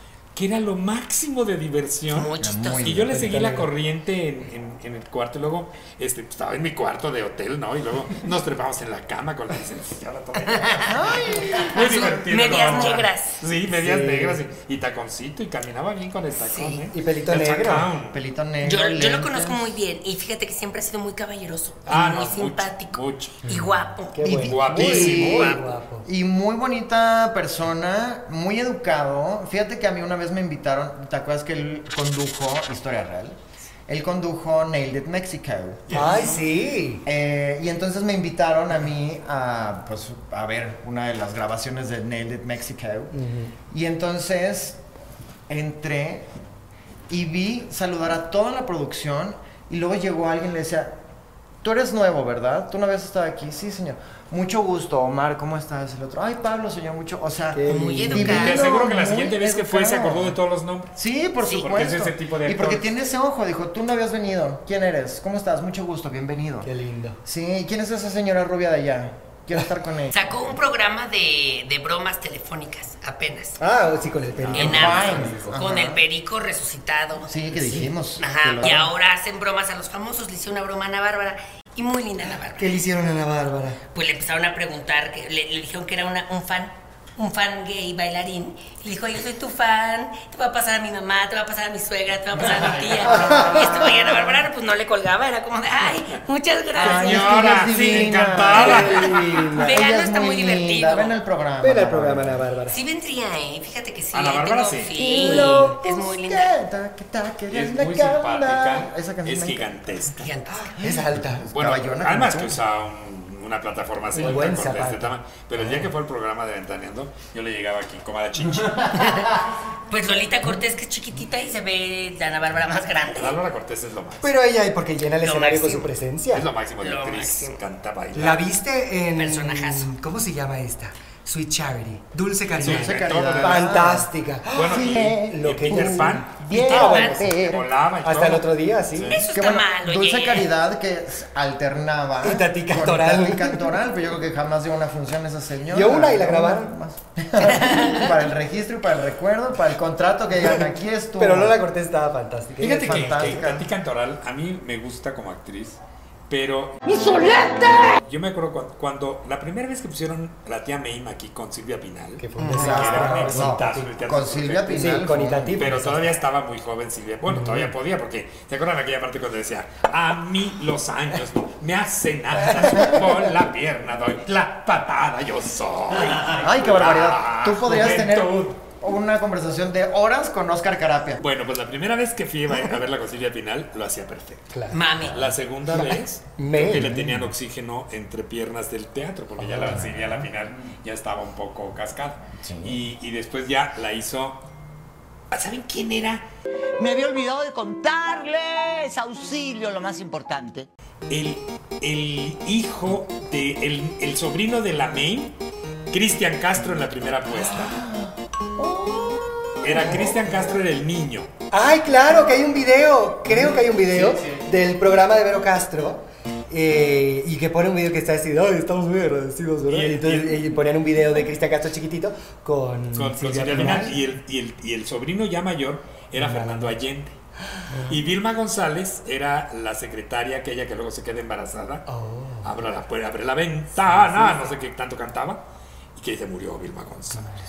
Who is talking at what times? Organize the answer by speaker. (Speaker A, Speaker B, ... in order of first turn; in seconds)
Speaker A: 0.3-18.2, 21.8-23.5, 24.3-25.7, 35.9-36.7, 58.2-61.0, 61.5-62.9, 74.4-75.3, 92.5-93.3, 96.8-99.4, 104.1-105.1, 107.5-110.4, 111.5-119.1, 123.1-124.3, 126.3-128.4, 132.6-133.9, 134.5-139.2, 152.6-156.9, 157.9-165.0, 165.5-178.6, 181.2-194.4, 195.3-196.3, 201.1-205.4, 205.9-207.8, 209.6-211.3, 213.3-214.3, 219.7-220.4, 222.9-227.2, 227.8-231.8, 232.4-237.3
Speaker B: 2.1-2.9, 10.4-10.9, 11.5-13.4, 16.4-16.9, 18.6-24.7, 57.7-58.6, 61.4-61.7, 70.1-73.6, 74.5-77.3, 78.2-82.8, 83.9-97.5, 99.5-101.2, 102.7-106.5, 110.2-110.7, 118.9-123.3, 125.2-125.9, 126.8-127.6, 129.1-129.9, 136.5-137.2, 139.1-140.5, 147.5-148.0, 184.7-185.3
Speaker C: 2.4-3.3, 10.8-13.0, 18.1-19.8, 24.8-36.0, 37.0-43.1, 43.7-44.8, 45.5-46.3, 47.1-51.0, 51.6-60.4, 61.0-66.7, 67.2-70.3, 74.5-76.0, 77.3-78.9, 93.1-94.3, 96.8-102.4, 105.0-110.0, 110.8-112.6, 132.6-137.7, 139.3-151.6, 152.8-153.7, 162.5-165.7, 176.2-181.2, 192.4-192.8, 208.6-209.7
Speaker D: 3.1-3.7, 13.7-14.4, 16.9-17.9, 24.1-26.1, 35.9-37.0, 43.1-43.5, 57.5-58.6, 66.6-67.2, 73.6-75.5, 77.5-77.9, 82.6-83.8, 93.0-93.8, 98.5-99.8, 101.6-102.8, 105.1-105.8, 110.8-111.5, 114.1-115.1, 124.2-126.5, 128.1-137.4, 138.0-139.2, 142.2-143.7, 145.7-146.7, 151.2-153.4, 162.2-163.9, 164.7-166.2, 167.3-167.7, 184.5-184.8, 185.7-187.3, 189.4-190.1, 209.8-210.1, 211.5-224.0, 226.2-226.8, 227.6-228.0, 231.9-232.5, 233.9-234.3
Speaker E: 196.8-200.7